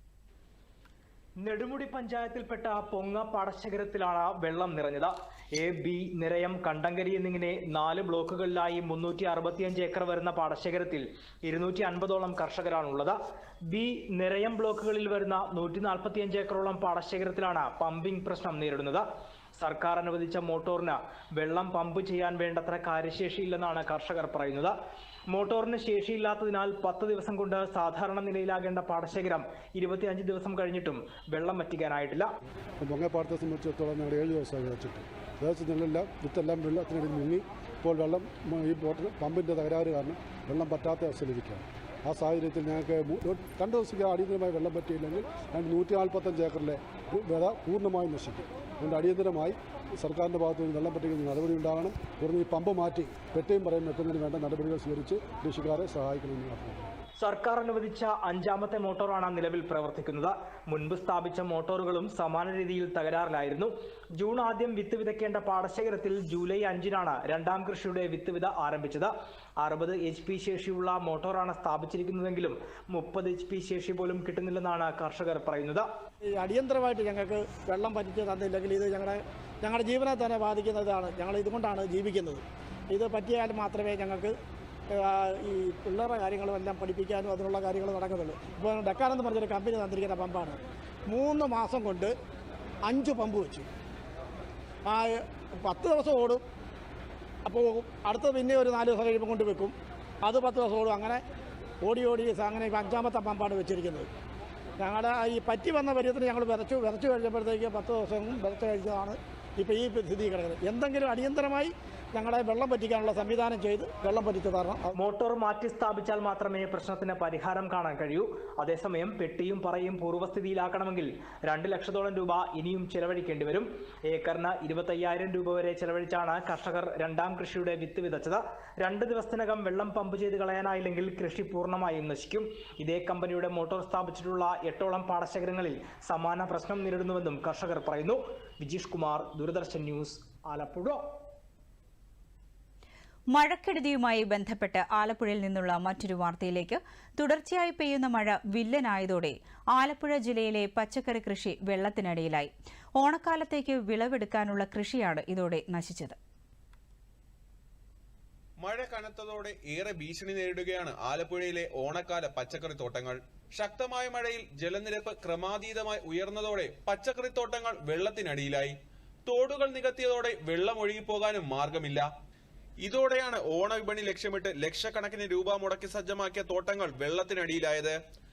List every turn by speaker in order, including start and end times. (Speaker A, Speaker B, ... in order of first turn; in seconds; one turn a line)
Speaker A: 1.4-13.2
Speaker A: 13.7-19.0
Speaker A: 19.6-24.7
Speaker A: 25.3-32.3
Speaker B: 32.8-56.9
Speaker A: 57.2-75.8
Speaker C: 76.2-84.3
Speaker C: 84.9-92.1
Speaker C: 92.8-93.7
Speaker C: 94.8-96.4
Speaker C: 97.5-101.2
Speaker C: 101.8-104.1
Speaker C: 104.8-114.9
Speaker A: 115.0-141.0
Speaker D: 143.3-156.2
Speaker E: 158.6-168.8
Speaker E: 169.3-172.1
Speaker E: 172.8-178.0